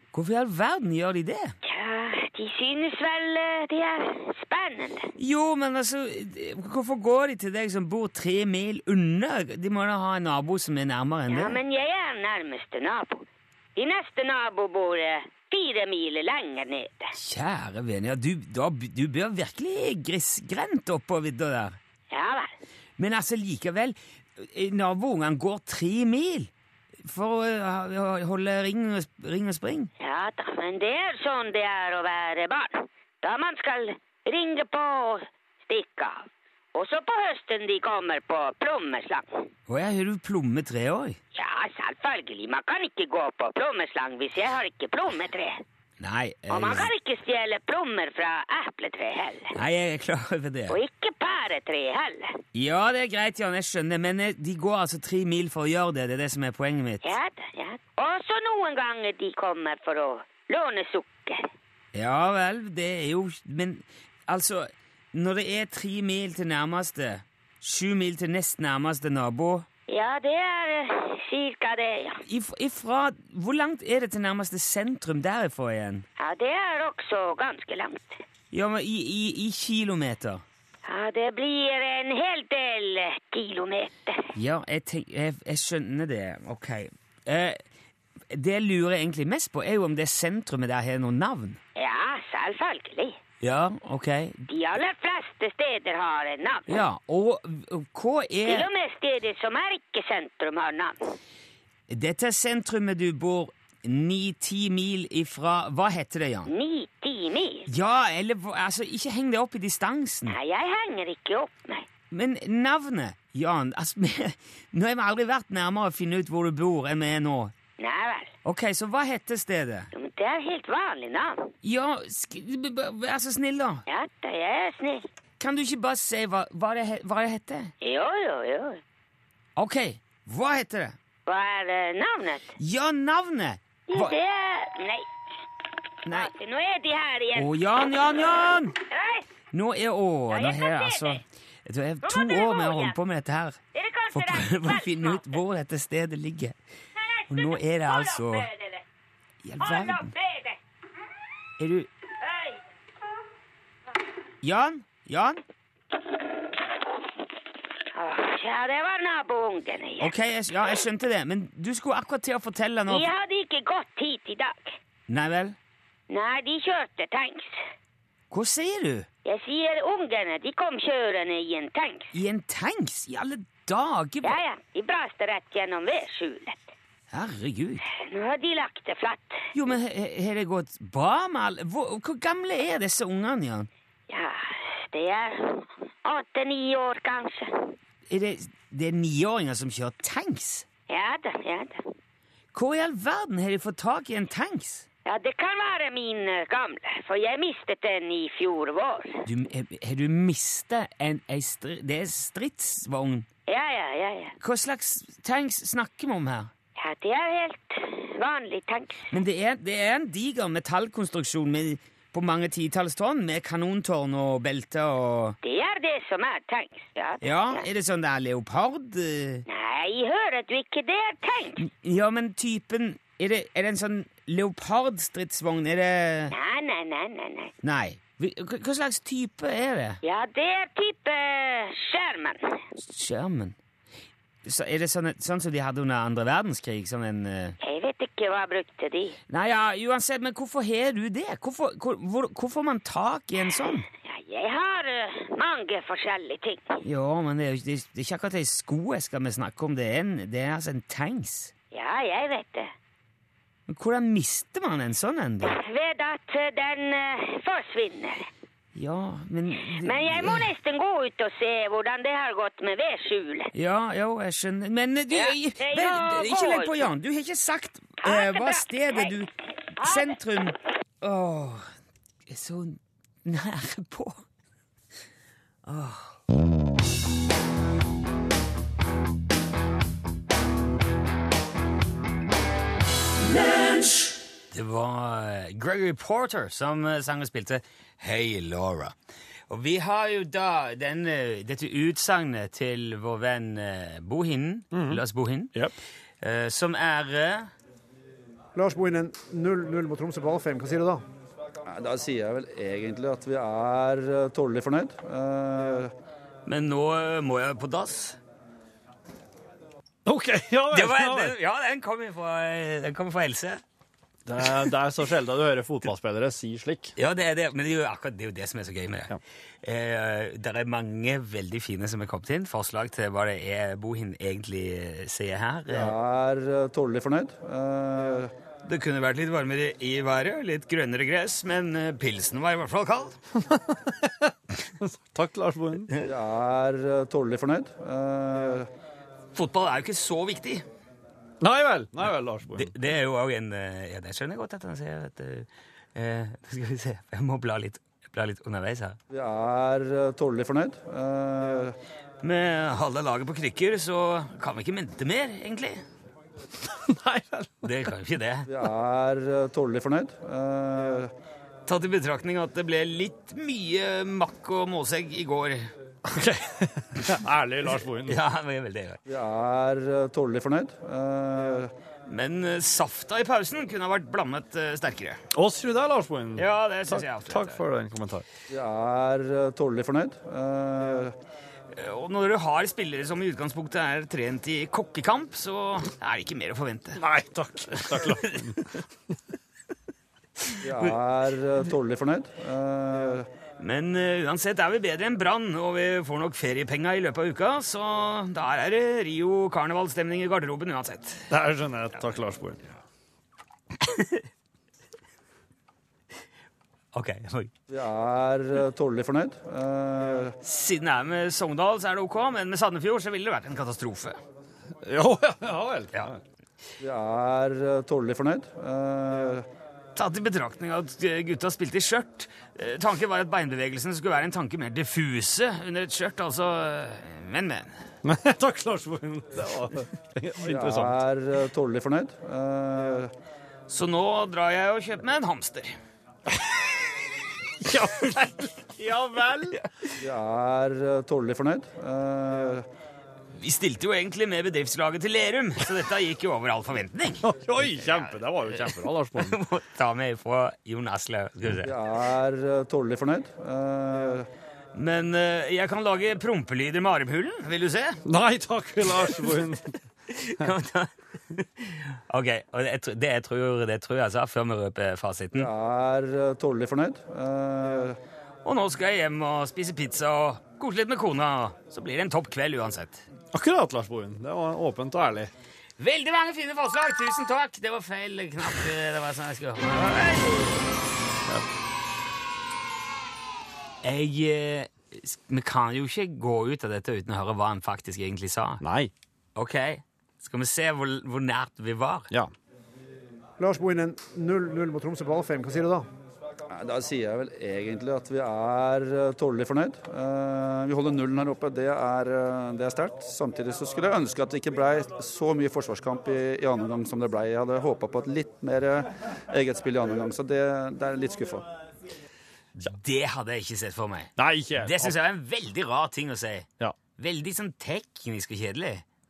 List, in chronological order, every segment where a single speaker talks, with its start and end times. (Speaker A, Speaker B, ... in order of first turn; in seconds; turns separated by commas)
Speaker A: 0.1-1.5, Speaker B: 1.6-5.1, Speaker A: 5.2-11.6, Speaker B: 11.3-17.1, Speaker A: 17.1-21.8, Speaker B: 22.1-22.5, Speaker A: 23.0-26.5, Speaker A: 27.0-29.9, Speaker B: 30.0-39.4, Speaker A: 39.7-41.2, Speaker B: 41.3-45.6, Speaker A: 46.0-46.9, Speaker B: 46.5-49.5, Speaker A: 49.5-50.8, Speaker B: 50.7-52.4, Speaker A: 52.5-57.1, Speaker B: 57.0-61.5, Speaker A: 61.9-69.7, Speaker B: 69.9-72.2, Speaker A: 72.2-76.0, Speaker B: 76.2-78.2, Speaker A: 78.5-80.4, Speaker B: 80.8-84.3, Speaker A: 84.3-87.6, Speaker A: 88.3-91.6, Speaker B: 91.8-93.2, Speaker A: 93.4-94.4, Speaker B: 94.5-96.8, Speaker A: 96.7-98.7, Speaker B: 98.5-101.1, Speaker A: 101.9-106.5, Speaker B: 106.5-107.7, Speaker A: 107.7-110.3, Speaker B: 110.3-111.9, Speaker A: 112.1-117.5, Speaker B: 117.8-118.3, Speaker A: 118.4-119.9, Speaker B: 119.9-121.5, Speaker A: 121.6-123.8, Speaker B: 123.9-125.0, Speaker A: 125.4-127.7, Speaker B: 127.8-128.8, Speaker A: 129.6-131.0, Speaker B: 131.2-132.5, Speaker A: 132.6-134.2, Speaker B: 133.9-135.1, Speaker A: 136.0-136.3, Speaker B: 136.1-137.5, Speaker A: 137.3-138.8, Speaker B: 138.9-139.3, Speaker A: 139.5-143.6, Speaker B: 140.3-141.2, Speaker B: 142.0-142.9, Speaker B: 143.7-145.4, Speaker A: 144.1-146.6, Speaker B: 147.0-148.8, Speaker A: 147.3-148.5, Speaker A: 149.4-150.1, Speaker B: 149.6-150.6, Speaker A: 151.6-151.9, Speaker B: 152.2-152.6, Speaker A: 154.4-155.4, Speaker B: 157.9-160.1, Speaker A: 160.0-163.1, Speaker B: 162.9-164.7, Speaker A: 165.1-165.6, Speaker B: 166.1-167.5, Speaker A: 168.3-169.1, Speaker B: 169.2-172.1, Speaker A: 172.1-174.4, Speaker B: 174.2-176.7, Speaker A: 177.1-177.8, Speaker B: 177.9-179.4, Speaker A: 179.5-183.7, Speaker B: 184.1-187.7, Speaker A: 188.1-190.7, Speaker B: 190.9-191.8, Speaker A: 192.5-194.8, Speaker B: 195.1-199.2, Speaker A: 199.2-203.3, Speaker B: 203.5-204.3, Speaker A: 204.4-206.5, Speaker B: 206.8-209.1, Speaker A: 209.1-215.4, Speaker B: 215.4-217.6, Speaker A: 217.2-219.4, Speaker B: 219.5-221.6, Speaker A: 221.6-226.3, Speaker B: 226.3-227.5, Speaker A: 227.6-230.0, Speaker B: 230.0-232.6, Speaker A: 232.8-233.6, Speaker A: 234.4-237.6, Speaker B: 237.6-239.2, Speaker A: 239.3-243.9, Speaker B: 243.4-246.8, Speaker A: 246.8-251.5, Speaker B: 251.7-252.7, Speaker A: 253.7-255.6, Speaker B: 255.5-258.3, Speaker A: 258.8-260.4, Speaker B: 259.7-263.5, Speaker A: 263.5-271.7, Speaker B: 265.1-266.9, Speaker B: 268.0-269.1, Speaker B: 269.8-270.2, Speaker A: 272.3-274.2, Speaker A: 275.6-276.2, Speaker A: 284.5-288.9, Speaker A: 289.5-295.5, Speaker C: 294.7-295.0, Speaker A: 296.2-297.5, Speaker D: 298.5-301.0, Speaker E: 301.7-305.9, Speaker A: 306.4-308.2, Speaker C: 310.0-311.4, Speaker A: 310.7-313.6, Speaker C: 314.2-316.9, Speaker A: 316.9-325.9, Speaker E: 325.7-328.3, Speaker A: 328.6-333.2, Speaker C: 333.4-335.9, Speaker E: 336.0-338.7, Speaker A: 339.3-340.6, Speaker C: 341.4-342.7, Speaker A: 342.5-349.0, Speaker E: 349.1-351.8, Speaker A: 352.2-355.8, Speaker C: 356.6-357.9, Speaker A: 357.6-358.5, Speaker E: 358.5-361.1, Speaker A: 361.6-365.7, Speaker C: 366.0-368.2, Speaker A: 368.1-369.0, Speaker E: 369.1-371.7, Speaker A: 372.1-375.2, Speaker C: 375.3-378.2, Speaker A: 376.4-377.6, Speaker E: 378.5-381.1, Speaker A: 381.7-387.0, Speaker C: 386.9-388.7, Speaker A: 387.8-388.4, Speaker E: 390.6-393.3, Speaker A: 393.6-401.3, Speaker C: 401.3-402.7, Speaker A: 403.8-404.2, Speaker A: 406.9-407.5, Speaker E: 407.7-410.3, Speaker A: 410.4-414.2, Speaker C: 414.8-416.2, Speaker E: 416.8-419.4, Speaker A: 419.9-427.7, Speaker C: 428.0-431.0, Speaker E: 430.4-433.1, Speaker A: 433.7-435.7, Speaker C: 437.6-439.6, Speaker E: 440.0-442.6, Speaker A: 443.4-451.7, Speaker C: 447.2-449.4, Speaker E: 451.6-454.3, Speaker A: 454.7-458.0, Speaker C: 458.0-459.7, Speaker A: 459.0-459.3, Speaker A: 460.1-465.5, Speaker E: 465.3-468.0, Speaker A: 468.4-473.0, Speaker C: 473.3-475.3, Speaker A: 475.8-480.8, Speaker A: 483.8-488.6, Speaker C: 488.6-488.9, Speaker A: 489.4-492.1, Speaker D: 493.4-495.9, Speaker E: 496.5-511.4, Speaker A: 512.6-518.8, Speaker C: 514.1-515.0